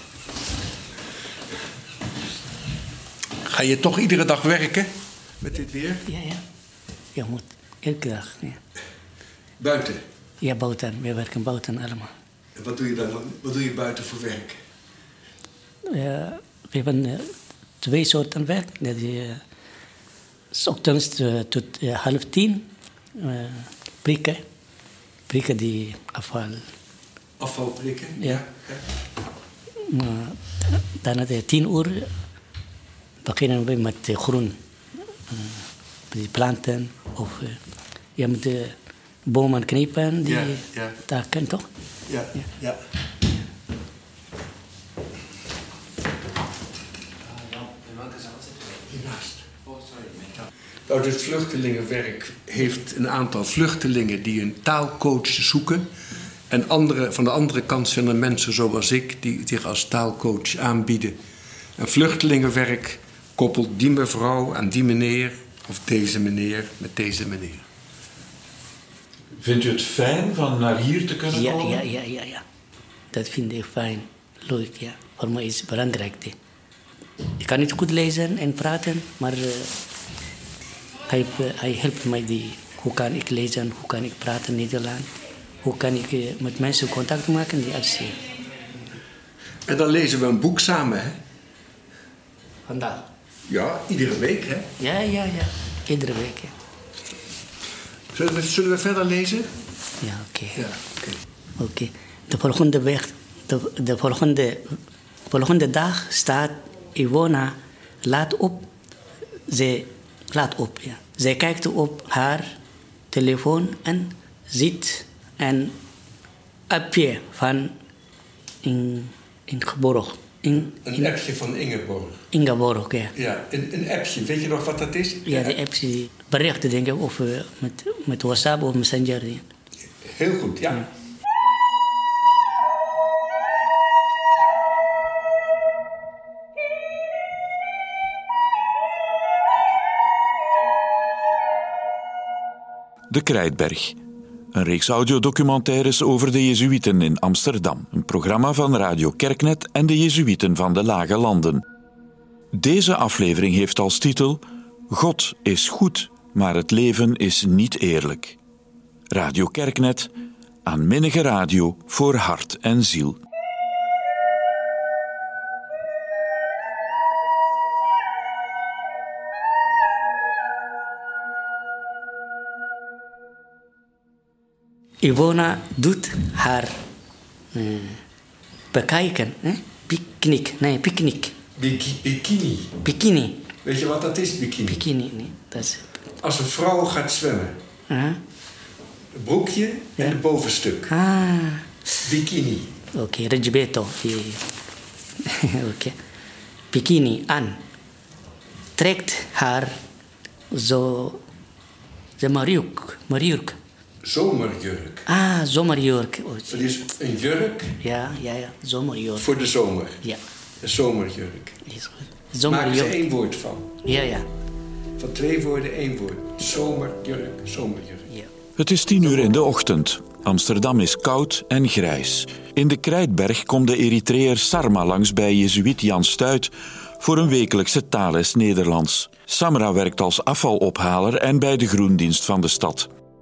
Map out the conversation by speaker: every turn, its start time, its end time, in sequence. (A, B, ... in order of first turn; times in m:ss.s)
0:03.4-0:04.9 A
0:05.4-0:06.0 A
0:06.1-0:06.4 B
0:07.1-0:08.6 B
0:09.6-0:10.0 A
0:10.4-0:12.1 B
0:12.6-0:14.6 A
0:15.8-0:19.4 B
0:20.5-0:24.4 B
0:25.3-0:26.7 B
0:27.4-0:28.8 A
0:29.8-0:32.1 B
0:33.2-0:34.6 B
0:35.3-0:37.6 B
0:38.2-0:41.7 B
0:40.3-0:41.0 A
0:42.1-0:42.8 A
0:47.6-0:49.7 A
0:50.9-0:55.9 A
0:56.5-1:01.2 A
1:01.8-1:07.6 A
1:09.4-1:11.8 C
1:11.3-1:12.4 B
1:13.1-1:16.4 B
1:17.4-1:19.7 B
1:21.1-1:25.1 B
1:25.6-1:28.3 B
1:29.7-1:31.2 A
1:32.7-1:33.0 B
1:33.5-1:34.7 A
1:34.8-1:36.6 B
1:38.1-1:39.5 A
1:40.0-1:40.6 B
1:40.5-1:41.2 A
1:41.6-1:44.8 B
1:45.3-1:48.7 B
1:49.5-1:52.6 B
1:53.1-1:55.8 B
1:56.7-1:57.7 B
1:58.6-2:01.1 B
2:00.8-2:02.2 A
2:02.3-2:03.1 B
2:03.1-2:05.6 A
2:05.3-2:09.4 B
2:10.0-2:10.9 A
2:23.1-2:24.0 C
2:24.5-2:31.6 C
2:32.5-2:38.4 C
2:39.1-2:40.1 C
2:40.6-2:43.2 C
2:55.0-2:56.8 B
2:57.5-2:58.0 B
2:58.7-3:01.4 B
3:01.6-3:02.8 A
3:02.8-3:03.4 B
3:03.6-3:04.8 A
3:04.7-3:05.9 B
3:06.2-3:07.6 A
3:07.9-3:08.2 B
3:09.1-3:10.9 A
3:10.9-3:11.7 B
3:12.0-3:12.7 A
3:12.9-3:14.5 B
3:15.2-3:16.0 B
3:16.7-3:17.6 B
3:18.8-3:19.8 B
3:20.5-3:21.2 B
3:22.2-3:23.6 B
3:24.0-3:25.0 A
3:25.1-3:26.6 B
3:26.5-3:27.8 A
3:27.8-3:29.3 B
3:29.1-3:30.0 A
3:30.6-3:31.6 A
3:31.6-3:33.0 B
3:32.5-3:33.8 A
3:33.8-3:34.3 B
3:35.0-3:38.1 A
3:38.6-3:52.9 C